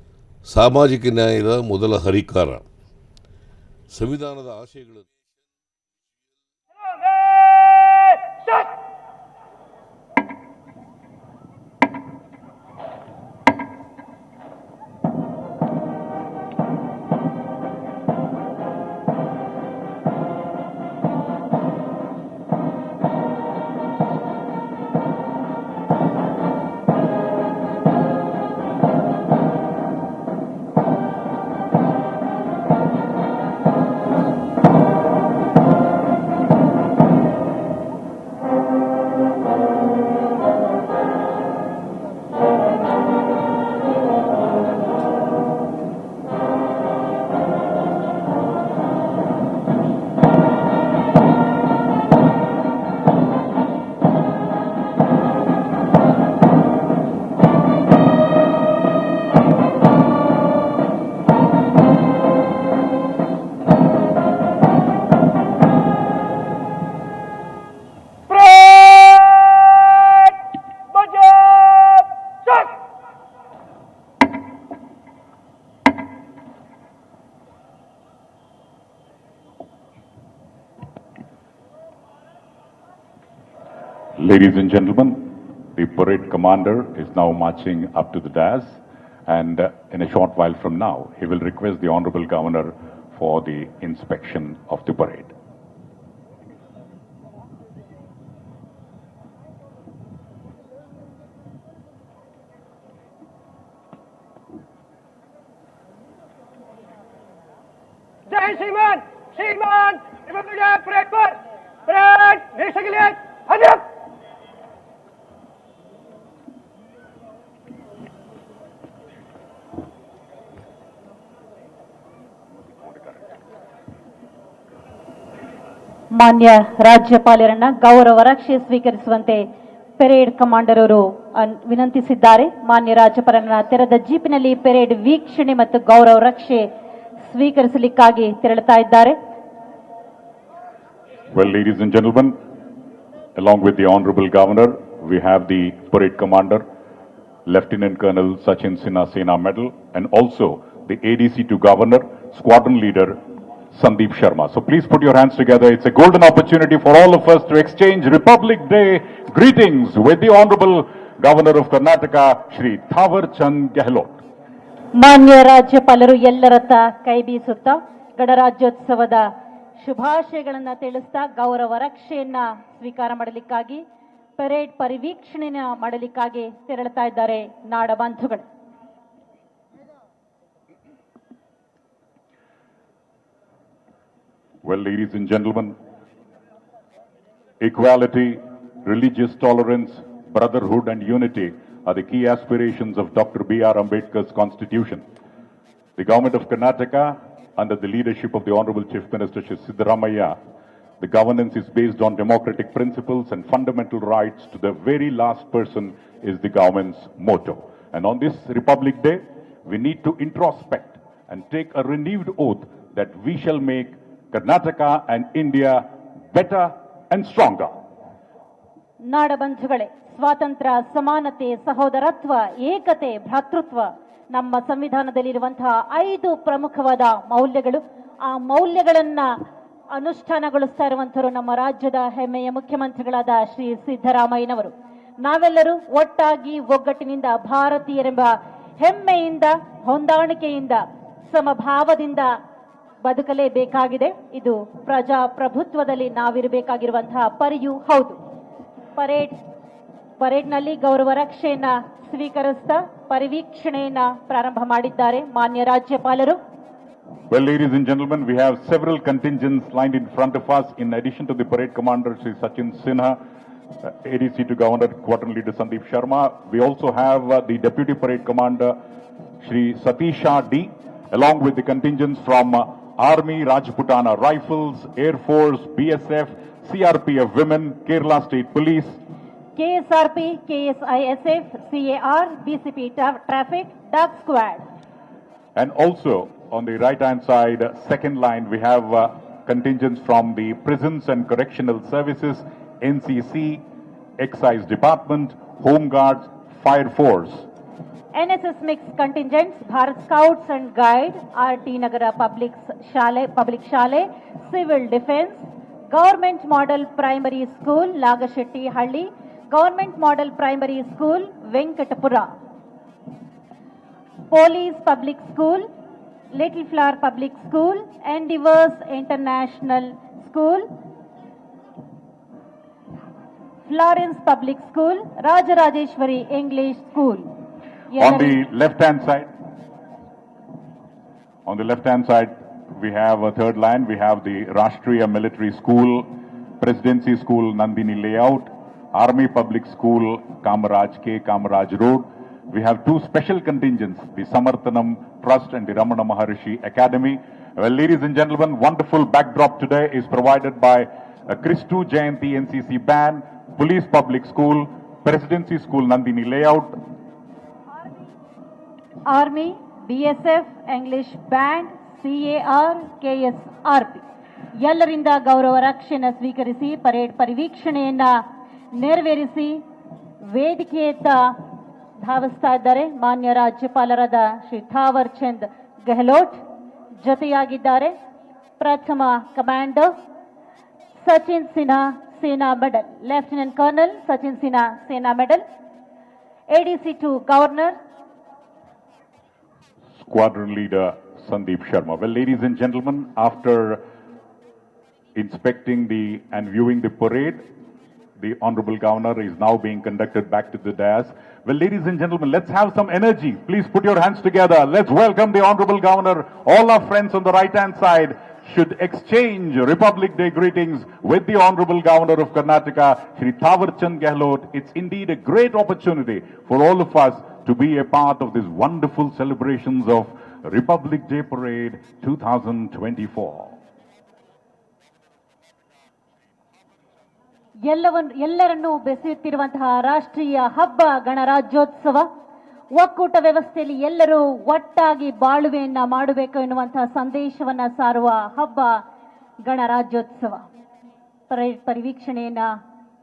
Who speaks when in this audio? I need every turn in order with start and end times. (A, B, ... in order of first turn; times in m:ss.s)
0:00.5-0:02.6 A
0:03.9-0:05.0 A
1:08.3-1:10.3 B
1:11.0-1:12.7 B
1:24.2-1:35.3 C
1:48.3-1:53.8 B
2:06.1-2:09.4 D
2:10.0-2:16.6 D
2:17.2-2:19.2 D
2:21.3-2:22.4 C
2:23.4-2:26.6 C
2:27.5-2:33.2 C
2:33.7-2:44.2 C
2:44.9-2:53.8 D
2:54.4-2:58.4 D
3:04.6-3:05.7 C
3:07.6-3:15.0 C
3:16.0-3:20.4 C
3:21.0-3:37.8 C
3:39.0-3:49.3 D
3:49.9-4:02.3 D
4:03.0-4:08.2 D
4:09.0-4:09.4 D
4:10.2-4:16.4 D
4:17.3-4:23.2 C
4:23.8-4:28.8 C
4:29.4-4:39.0 C
4:39.6-4:44.6 D
4:45.6-4:53.6 C
4:54.2-4:57.5 C
4:58.1-5:12.3 D
5:14.3-5:15.7 D
5:16.3-5:20.7 D
5:23.6-5:27.3 D
5:27.9-5:28.4 D
5:28.0-5:29.3 C
5:31.4-5:56.8 C
5:59.1-6:04.0 D
6:04.5-6:08.2 D
6:08.7-6:09.6 D
6:10.2-6:11.4 D
6:12.0-6:16.4 D
6:17.0-6:17.9 D
6:18.6-6:19.9 D
6:20.9-6:25.4 D
6:26.5-6:27.8 D
6:30.0-6:33.8 C
6:35.1-6:37.4 C
6:38.2-7:03.6 C
7:07.6-7:12.1 D
7:12.7-7:18.8 D
7:19.4-7:20.5 D
7:21.3-7:22.5 D